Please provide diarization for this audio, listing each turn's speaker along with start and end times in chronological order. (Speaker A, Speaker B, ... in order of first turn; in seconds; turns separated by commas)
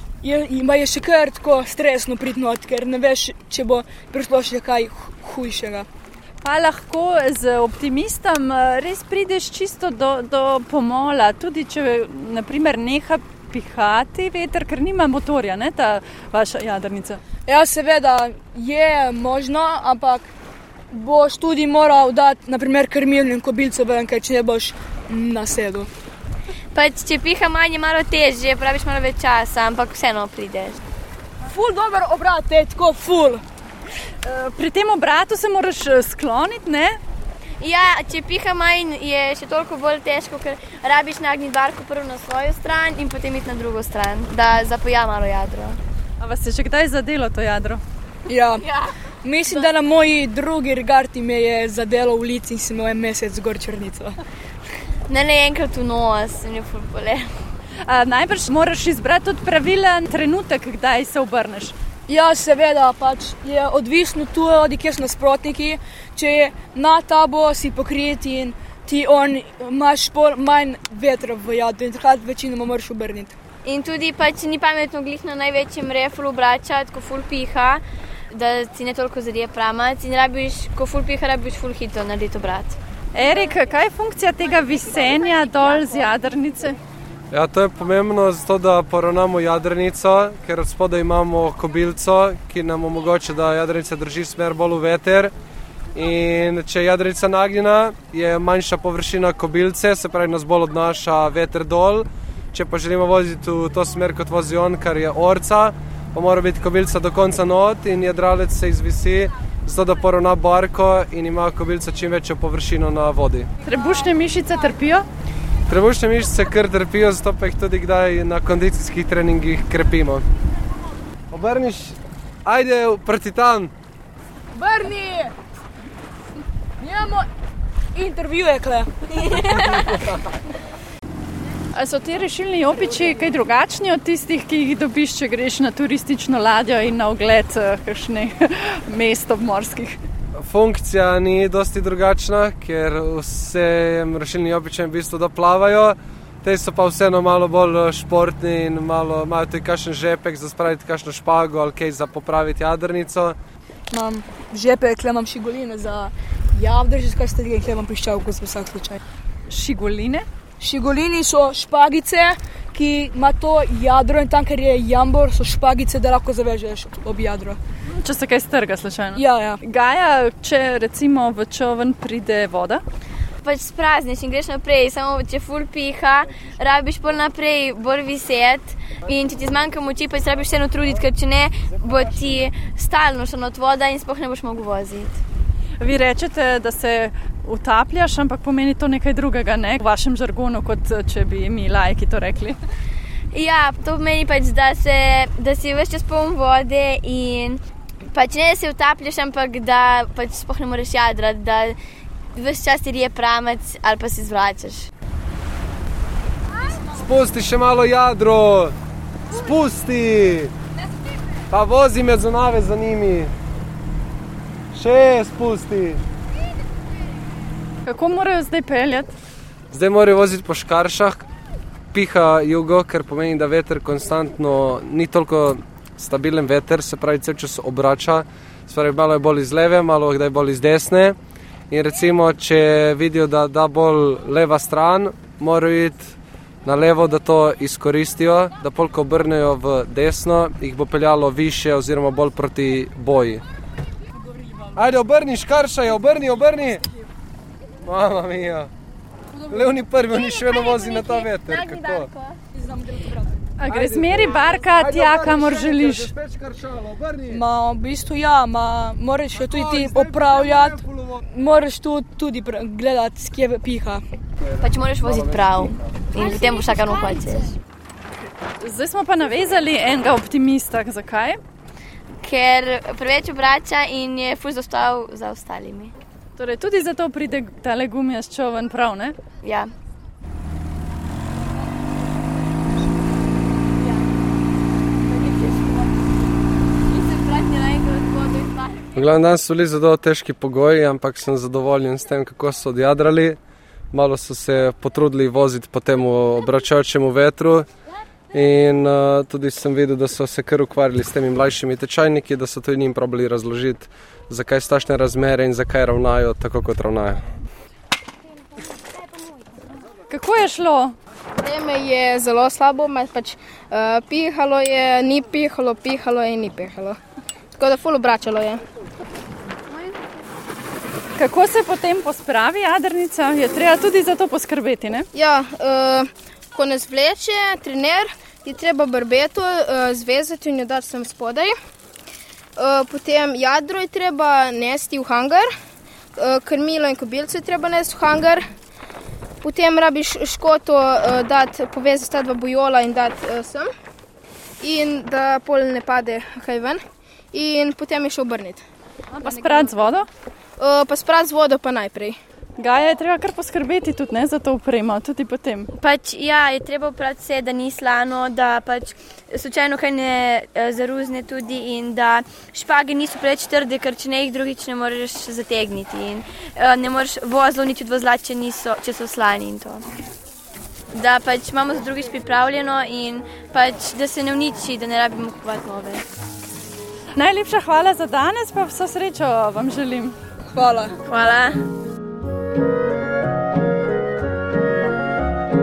Speaker A: 0.2-5.9, Speaker B: 6.4-17.2, Speaker A: 17.5-20.3, Speaker A: 20.9-25.9, Speaker C: 26.7-30.8, Speaker A: 31.5-33.4, Speaker B: 34.2-37.0, Speaker C: 37.6-45.8, Speaker B: 46.2-47.8, Speaker A: 48.3-48.7, Speaker C: 48.6-48.9, Speaker A: 49.2-54.1, Speaker C: 55.1-57.3, Speaker B: 57.9-61.7, Speaker A: 62.1-73.3, Speaker C: 73.7-82.8, Speaker B: 83.1-86.8, Speaker D: 87.3-95.3, Speaker D: 95.9-113.5, Speaker B: 113.6-115.1, Speaker D: 115.7-120.3, Speaker D: 121.3-123.7, Speaker A: 124.5-125.3, Speaker A: 126.8-127.3, Speaker A: 128.0-129.4, Speaker C: 129.2-129.9, Speaker B: 131.7-140.0, Speaker D: 140.4-153.4, Speaker A: 153.9-159.0, Speaker B: 159.5-160.3, Speaker A: 160.6-167.6, Speaker B: 167.9-172.8, Speaker A: 169.2-169.6, Speaker C: 173.4-185.2, Speaker B: 185.8-192.6, Speaker C: 193.3-197.6, Speaker C: 198.1-201.8, Speaker C: 202.3-204.9, Speaker D: 206.9-208.8, Speaker D: 209.3-210.5, Speaker D: 211.5-213.3, Speaker D: 214.7-216.0, Speaker B: 217.9-219.1, Speaker D: 219.7-221.3, Speaker D: 221.9-231.2, Speaker D: 231.7-243.4, Speaker D: 244.8-246.8, Speaker D: 247.8-248.7, Speaker A: 249.4-249.7, Speaker D: 249.5-252.1, Speaker C: 250.2-252.4, Speaker A: 252.5-253.4, Speaker B: 253.6-256.1, Speaker D: 253.7-257.4, Speaker A: 257.3-264.0, Speaker D: 259.4-261.2, Speaker D: 264.4-265.8, Speaker C: 264.6-267.6, Speaker B: 268.6-271.4, Speaker C: 272.2-275.9, Speaker B: 276.4-279.2, Speaker C: 279.4-279.7, Speaker C: 283.8-284.1, Speaker C: 285.0-286.3, Speaker C: 286.9-289.0, Speaker D: 288.9-293.4, Speaker D: 293.9-297.7, Speaker D: 298.3-307.2, Speaker B: 310.1-311.0, Speaker E: 311.4-317.0, Speaker E: 317.6-318.6, Speaker B: 321.2-325.1, Speaker E: 325.1-331.6, Speaker E: 332.6-335.5, Speaker E: 336.2-338.4, Speaker E: 339.4-343.7, Speaker E: 344.6-346.8, Speaker E: 347.3-348.6, Speaker B: 349.1-350.1, Speaker E: 350.6-352.2, Speaker B: 352.6-355.7, Speaker C: 355.8-369.9, Speaker C: 370.9-376.0, Speaker B: 377.2-380.2, Speaker A: 380.5-380.9, Speaker C: 381.0-381.6